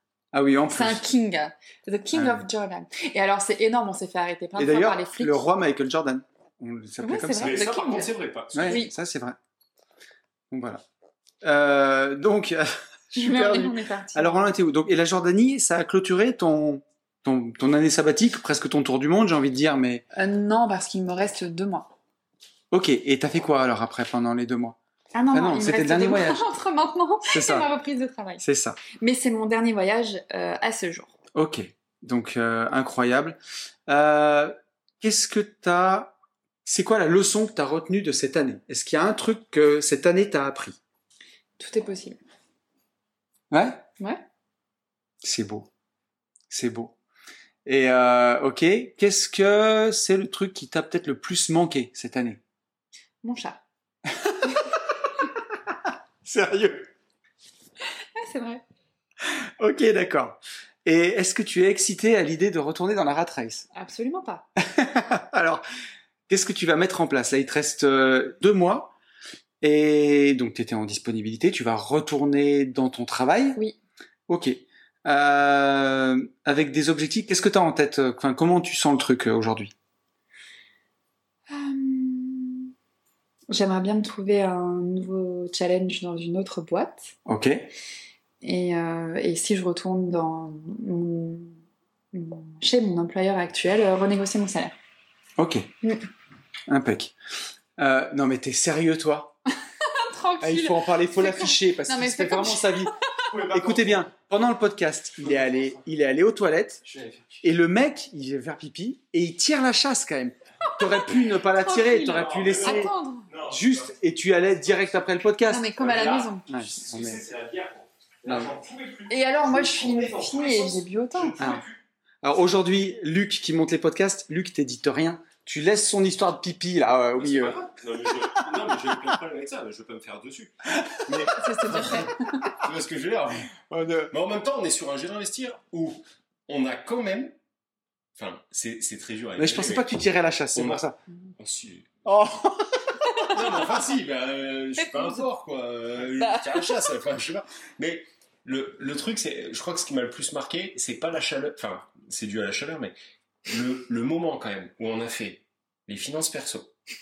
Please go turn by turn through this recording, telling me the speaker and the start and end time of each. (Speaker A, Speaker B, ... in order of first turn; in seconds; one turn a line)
Speaker A: 0.3-1.0
Speaker B: 0.7-5.4
Speaker A: 2.1-2.4
Speaker A: 4.6-7.6
Speaker B: 7.0-8.1
Speaker C: 7.4-8.8
Speaker A: 8.5-9.4
Speaker B: 8.7-8.9
Speaker A: 10.5-10.8
Speaker A: 11.4-20.0
Speaker B: 13.1-14.5
Speaker B: 20.1-21.9
Speaker A: 22.7-24.8
Speaker B: 25.1-28.4
Speaker A: 25.3-26.4
Speaker A: 27.3-27.7
Speaker A: 28.4-28.8
Speaker B: 29.0-31.1
Speaker A: 31.3-40.8
Speaker B: 41.6-42.2
Speaker A: 43.5-43.8
Speaker A: 45.2-45.7
Speaker A: 46.5-46.9
Speaker A: 47.6-52.4
Speaker B: 53.2-53.6
Speaker A: 54.1-54.4
Speaker A: 56.2-56.9
Speaker B: 58.2-58.6
Speaker A: 59.2-63.7
Speaker B: 63.7-64.5
Speaker A: 64.6-65.6
Speaker A: 66.3-68.9
Speaker A: 69.6-73.6
Speaker A: 74.3-79.7
Speaker B: 81.5-82.7
Speaker B: 83.5-87.1
Speaker A: 87.2-87.6
Speaker B: 88.4-91.6
Speaker B: 92.1-94.7
Speaker A: 95.4-95.7
Speaker A: 96.7-97.1
Speaker A: 97.8-99.3
Speaker B: 99.8-103.2
Speaker A: 100.4-112.9
Speaker C: 103.3-104.1
Speaker C: 106.9-107.3
Speaker B: 110.7-113.3
Speaker C: 112.1-113.9
Speaker A: 113.5-115.7
Speaker B: 115.5-116.5
Speaker C: 115.8-121.8
Speaker A: 116.5-117.2
Speaker B: 119.1-121.3
Speaker A: 122.2-127.6
Speaker C: 127.2-133.6
Speaker A: 128.4-128.9
Speaker A: 130.7-131.3
Speaker B: 131.3-132.5
Speaker A: 133.7-134.1
Speaker C: 134.1-137.3
Speaker C: 138.2-139.9
Speaker A: 139.4-140.9
Speaker C: 140.5-140.8
Speaker C: 141.4-141.9
Speaker A: 142.0-143.0
Speaker B: 143.0-143.6
Speaker C: 143.2-152.9
Speaker B: 144.8-145.2
Speaker B: 146.2-146.9
Speaker C: 153.4-156.7